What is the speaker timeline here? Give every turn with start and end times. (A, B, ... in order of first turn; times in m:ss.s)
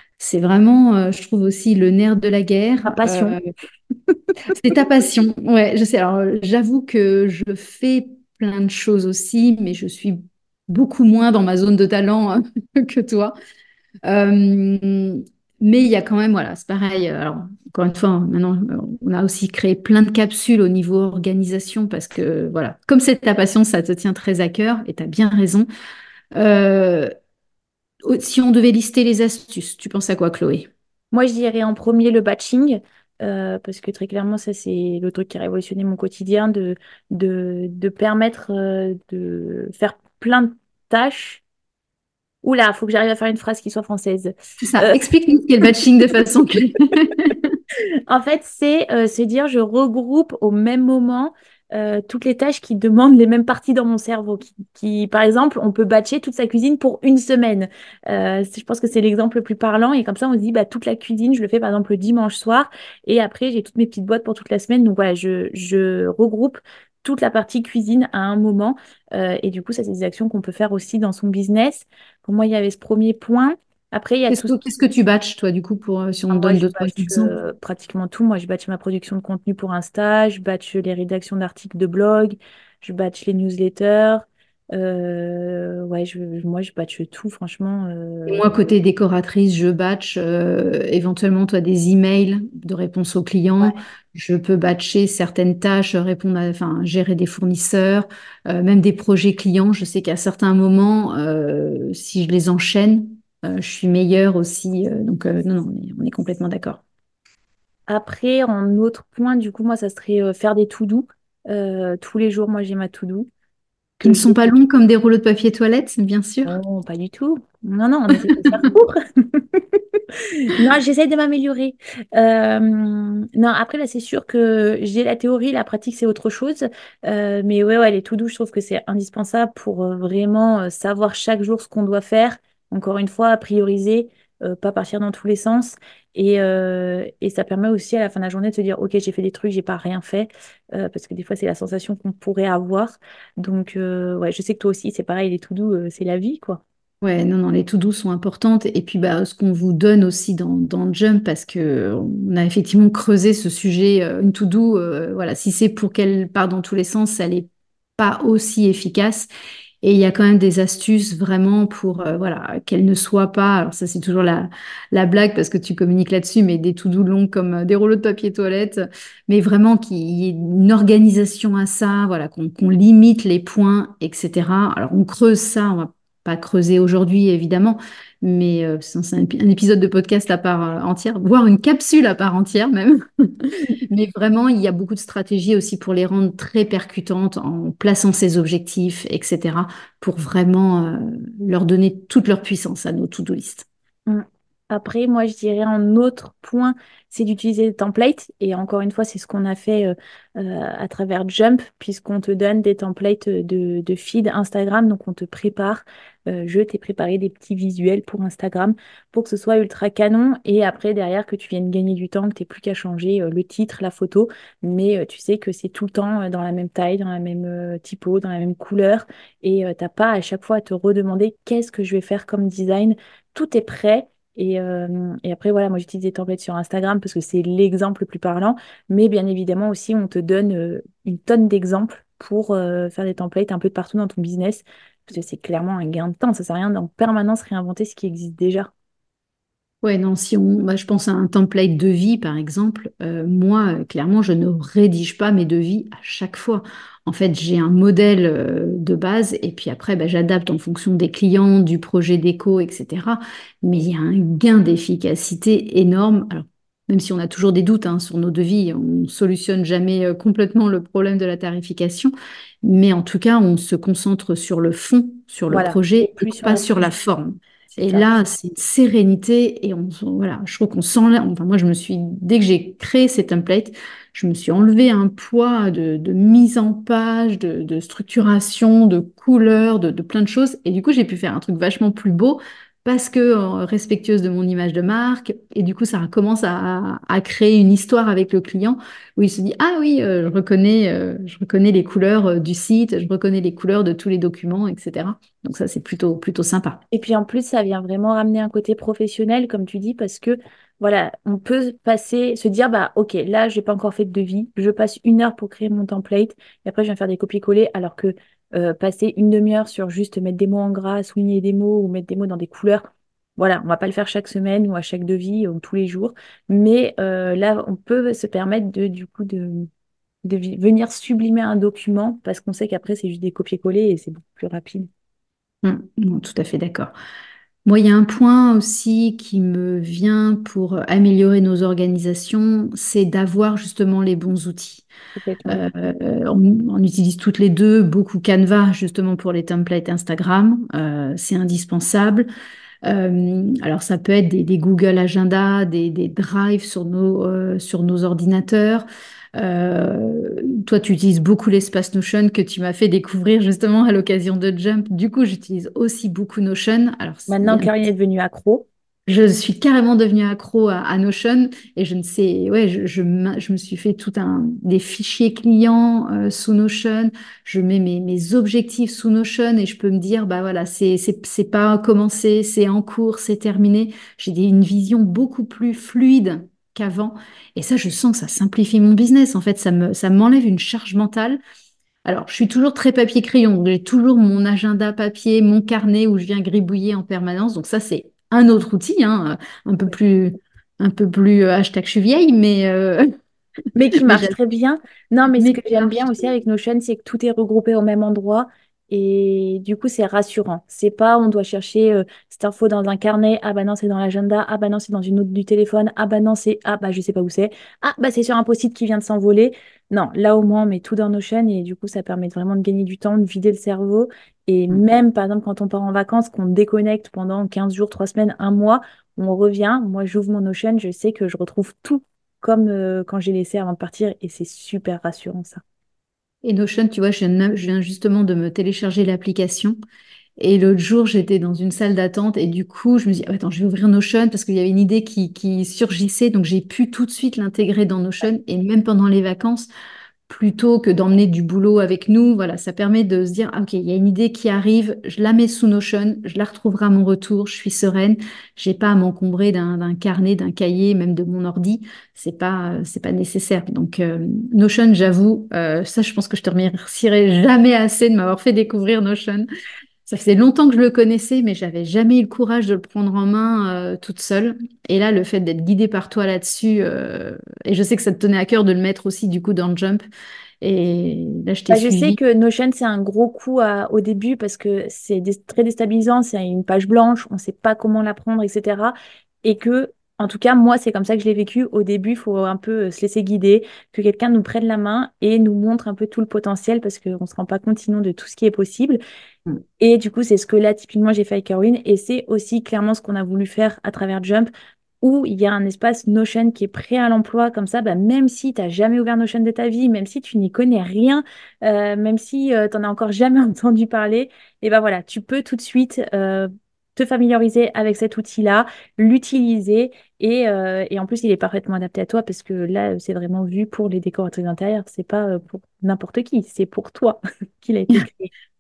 0:00.2-0:03.4 A
0:02.8-0:03.4 B
0:04.5-0:13.4 A
0:14.0-0:25.7 A
0:26.3-0:27.1 A
0:28.0-0:30.7 A
0:31.1-0:41.4 B
0:42.4-0:45.0 B
0:44.6-0:47.6 A
0:48.1-1:14.6 B
1:14.3-1:17.4 A
1:16.3-1:28.6 B
1:28.3-1:46.8 A
1:47.9-1:53.3 B
1:54.0-1:54.5 B
1:54.0-1:56.5 A
1:56.5-2:26.6 B
2:27.0-2:37.5 A
2:38.0-2:39.3 A
2:39.8-3:13.7 A
3:14.1-3:58.7 B
3:59.8-4:56.8 A
4:25.5-4:26.9 B
4:27.8-4:28.1 B
4:56.9-5:19.7 B
5:20.2-5:24.9 B
5:25.6-5:26.9 A
5:27.7-5:34.9 A
5:35.2-5:35.6 B
5:35.5-5:42.3 A
5:42.8-5:57.8 A
5:57.3-5:58.7 B
5:59.1-6:21.4 A
6:22.0-6:33.1 A
6:33.8-7:05.6 B
6:34.0-6:34.4 A
6:35.4-6:36.3 A
7:06.4-7:09.8 A
7:10.4-7:19.7 A
7:20.3-7:39.5 A
7:40.1-7:50.0 A
7:50.6-7:52.2 A
7:51.7-8:09.0 B
8:09.8-8:14.5 B
8:15.0-8:38.3 B